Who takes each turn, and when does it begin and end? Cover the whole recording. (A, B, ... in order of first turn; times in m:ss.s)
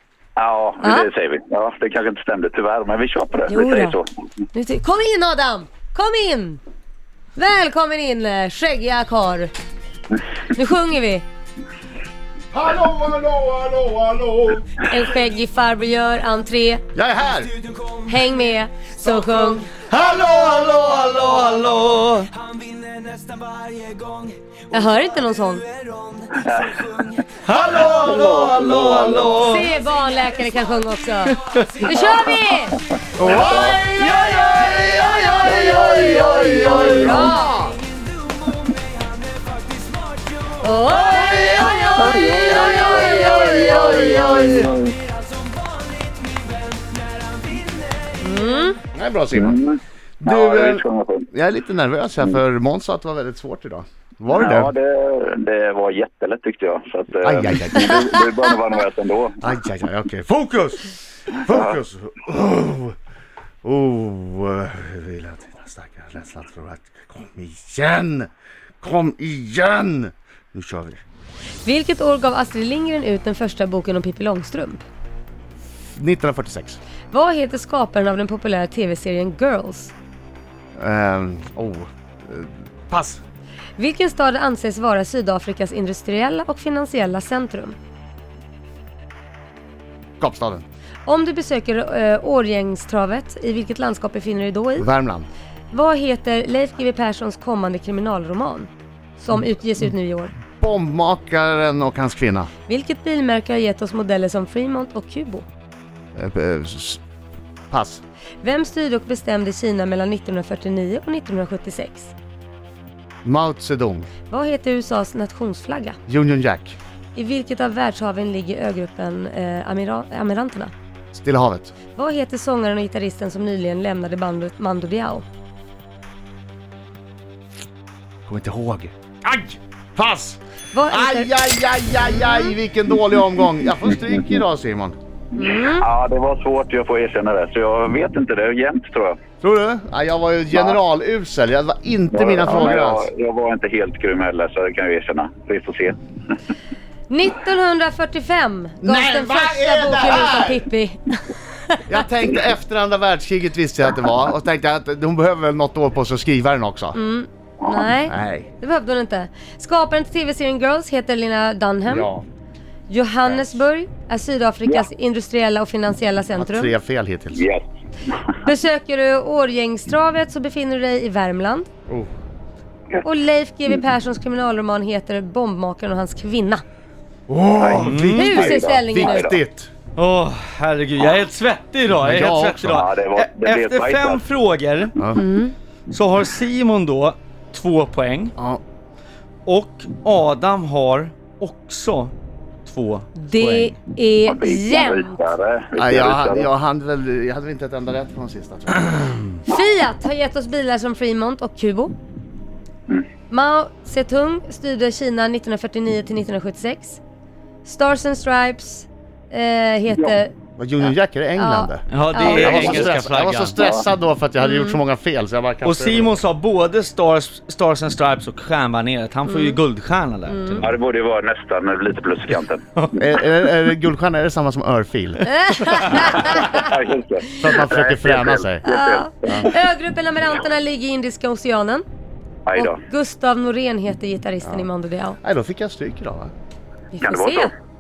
0:00.4-0:04.0 A
0:00.8-0:01.1 B
0:03.5-0:04.0 B
0:04.5-0:06.6 B
0:07.4-0:09.5 B
0:10.5-0:11.2 B
0:12.5-0:14.8 C
0:14.9-0:16.8 B
0:16.9-0:17.5 C
0:18.0-0:19.7 B
0:19.7-0:22.3 D
0:23.8-0:24.3 D
0:24.7-0:25.6 B
0:26.3-0:26.8 A
0:27.3-0:29.7 D
0:27.8-0:29.4 A
0:29.4-0:32.8 B
0:31.6-0:31.8 D
0:33.2-0:37.8 C
0:33.2-0:33.8 A
0:33.9-0:37.2 D
0:35.4-0:37.3 A
0:36.3-0:37.6 B
0:40.6-0:41.8 B
0:40.8-0:44.7 D
0:42.0-0:45.0 A
0:42.6-0:44.5 C
0:42.8-0:44.2 B
0:47.5-0:47.8 D
0:48.2-0:48.8 B
0:48.9-0:49.6 C
0:49.4-0:51.3 A
0:50.2-0:54.7 C
0:54.3-0:59.5 A
0:57.2-0:58.2 C
0:59.4-1:03.0 C
1:01.5-1:01.7 A
1:03.6-1:08.3 C
1:08.8-1:11.0 C
1:11.6-1:14.8 B
1:16.0-1:16.8 C
1:17.1-1:19.9 B
1:20.8-1:23.2 C
1:23.8-1:27.8 B
1:30.2-1:30.7 C
1:31.1-1:34.9 B
1:34.8-1:35.3 C
1:35.7-1:40.3 B
1:40.6-1:42.5 C
1:42.7-1:45.5 B
1:46.2-1:47.0 C
1:47.7-1:48.0 C
1:48.4-1:52.1 B
1:53.2-1:54.1 C
1:54.3-1:56.0 B
1:56.1-1:56.8 C
1:57.2-2:00.7 B
2:01.1-2:01.7 C
2:02.0-2:05.2 B
2:08.3-2:15.0 C
2:10.7-2:11.3 B
2:15.4-2:15.9 B
2:15.6-2:19.2 A
2:19.4-2:23.1 C
2:22.1-2:26.0 A
2:27.1-2:31.8 B
2:28.8-2:30.7 C
2:31.9-2:37.0 C
2:36.9-2:42.1 B
2:38.1-2:38.5 C
2:41.9-2:42.2 C
2:42.9-2:46.7 B
2:43.2-2:43.6 C
2:46.4-2:47.4 C
2:47.4-2:47.6 A
2:48.4-2:51.7 B
2:53.0-2:56.6 B
2:57.3-2:59.7 C
2:57.6-2:59.4 A
2:57.7-2:58.3 D
2:58.2-2:59.3 B
3:00.0-3:05.0 D
3:02.0-3:02.8 C
3:02.8-3:04.2 A
3:05.0-3:05.2 C
3:05.2-3:05.6 B
3:05.9-3:08.3 D
3:09.5-3:12.1 D
3:12.7-3:13.8 D
3:13.2-3:15.2 B
3:14.2-3:16.5 A
3:15.8-3:19.4 C
3:19.5-3:21.9 B
3:23.3-3:27.0 B
3:27.6-3:30.3 B
3:30.6-3:36.1 C
3:31.4-3:32.7 B
3:31.9-3:33.6 D
3:32.4-3:32.8 A
3:34.4-3:34.8 B
3:35.6-3:40.7 D
3:39.3-3:39.6 B
3:40.3-3:40.6 B
3:40.6-3:42.6 A
3:43.0-3:45.3 C
3:45.3-3:46.7 B
3:46.3-3:49.4 A
3:47.4-3:48.7 C
3:48.6-3:51.8 B
3:49.2-3:49.5 C
3:52.5-3:52.8 A
3:52.6-3:55.2 B
3:54.4-3:54.7 C
3:55.2-3:56.3 C
3:56.9-3:57.5 B
3:57.0-3:57.5 A